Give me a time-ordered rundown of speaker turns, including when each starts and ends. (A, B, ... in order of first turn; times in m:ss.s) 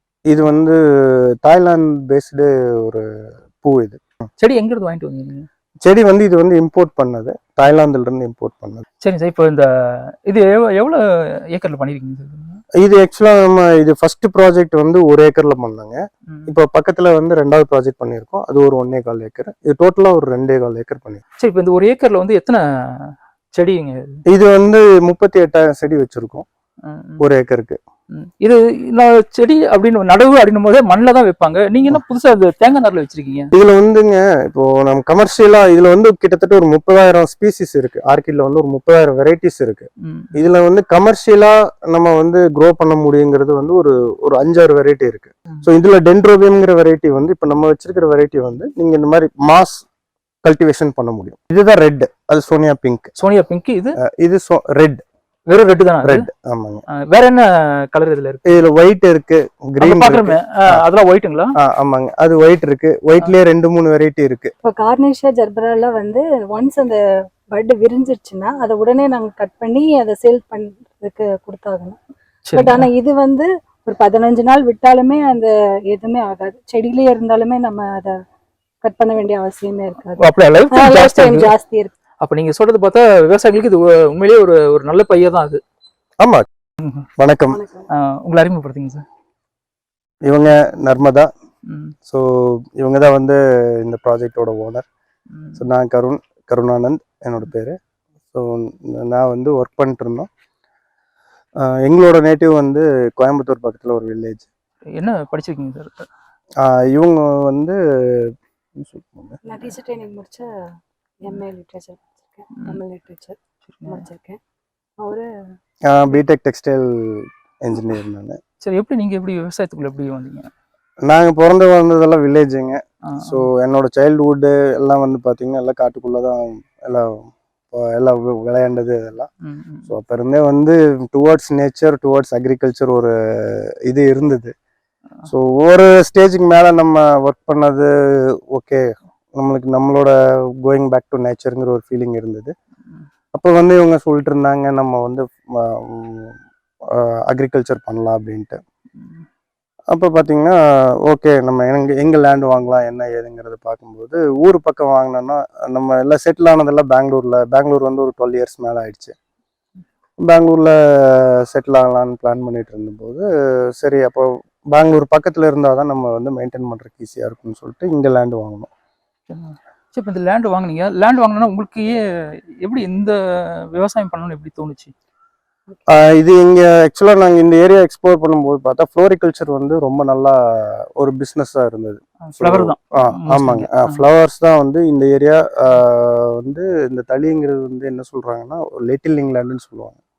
0:00.3-0:03.0 A
0:03.6-0:04.0 A
0:04.4-0:05.5 B
0:05.8-0:08.8 A
0:09.0-0:12.6 B
0:12.8-0:21.2 A
0:21.4-0:24.2 B
0:24.3-0:26.4 A
0:26.8-0:27.2 B
0:27.2-0:27.8 A
0:28.1-0:33.5 B
0:33.5-0:49.8 A
0:40.0-0:40.4 B
0:50.4-0:53.2 A
0:53.2-0:54.0 B
0:54.0-0:55.0 A
0:55.5-0:56.3 B
0:56.0-0:56.8 A
0:56.9-0:58.6 B
0:58.4-1:00.8 A
0:59.8-1:01.6 B
1:01.6-1:04.5 A
1:04.6-1:07.0 C
1:07.5-1:12.0 C
1:12.5-1:12.9 B
1:12.6-1:18.2 C
1:18.8-1:21.9 C
1:20.2-1:21.5 B
1:22.2-1:25.6 B
1:26.2-1:26.5 A
1:26.8-1:27.1 B
1:27.2-1:27.6 A
1:27.5-1:27.9 C
1:27.9-1:29.0 B
1:30.2-1:31.3 A
1:31.7-1:31.9 B
1:32.1-1:34.9 A
1:35.3-1:35.6 B
1:35.6-1:37.8 A
1:38.3-1:40.3 A
1:41.6-1:44.5 A
1:45.0-1:46.1 B
1:46.6-1:49.4 A
1:49.4-1:50.5 C
1:51.2-1:54.4 C
1:55.0-1:55.3 C
1:55.9-1:58.4 A
1:58.6-2:00.5 B
2:01.0-2:09.3 A
2:03.0-2:03.5 B
2:09.4-2:09.9 B
2:09.9-2:14.5 A
2:15.3-2:22.5 A
2:23.3-2:26.4 A
2:26.9-2:28.6 A
2:29.9-2:39.2 A
2:40.2-2:48.7 A
2:49.3-2:54.9 B
2:55.9-3:10.0 A
3:02.2-3:04.0 B